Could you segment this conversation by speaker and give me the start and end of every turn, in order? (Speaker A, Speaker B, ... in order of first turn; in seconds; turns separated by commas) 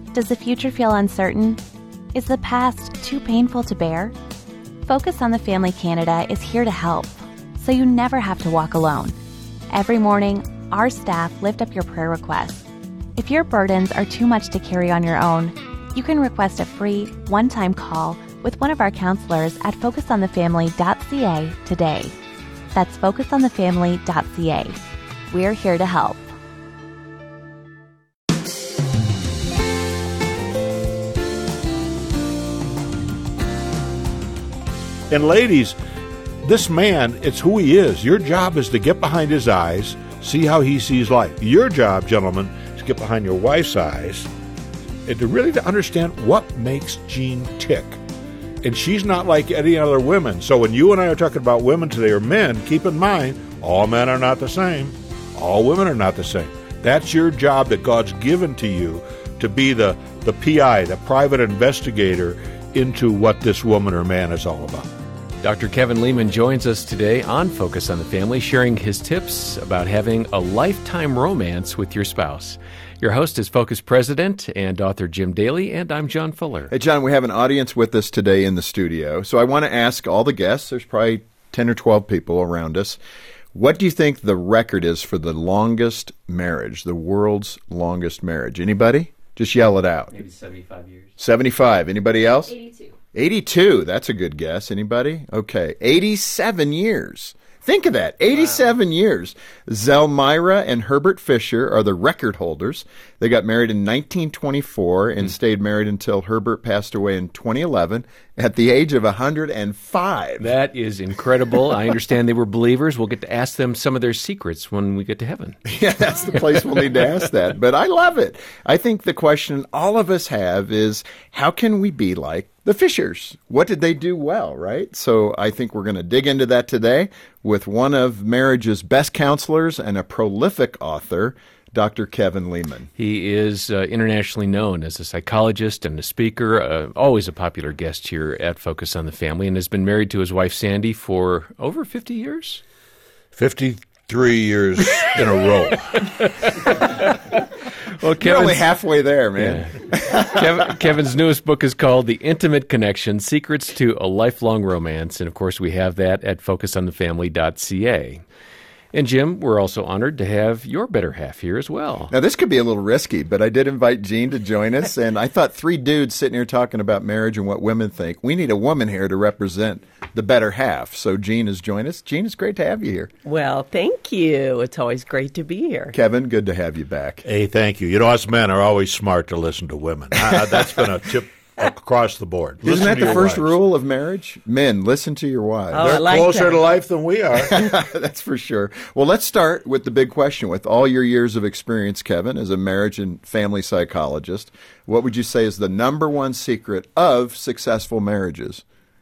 Speaker A: 0.1-1.6, Speaker A: 2.1-4.1, Speaker A: 4.8-9.2, Speaker A: 9.7-22.1, Speaker A: 22.7-24.8, Speaker A: 25.3-26.3, Speaker B: 35.1-35.8, Speaker B: 36.4-44.3, Speaker B: 45.1-48.0, Speaker B: 48.6-64.9, Speaker C: 65.4-76.7, Speaker D: 76.7-83.0, Speaker D: 83.5-90.1, Speaker C: 90.1-91.1, Speaker D: 91.2-110.5, Speaker C: 110.4-115.6, Speaker D: 115.7-132.9, Speaker C: 133.0-142.6, Speaker B: 143.3-146.1, Speaker C: 146.2-147.2, Speaker C: 147.9-148.7, Speaker D: 148.1-150.4, Speaker C: 149.4-158.2, Speaker C: 158.9-162.1, Speaker D: 162.1-173.1, Speaker E: 173.2-175.9, Speaker D: 175.9-177.2, Speaker B: 177.2-183.6, Speaker D: 180.3-180.8, Speaker D: 182.6-186.0, Speaker E: 185.7-186.7, Speaker B: 185.8-187.7, Speaker D: 187.4-198.6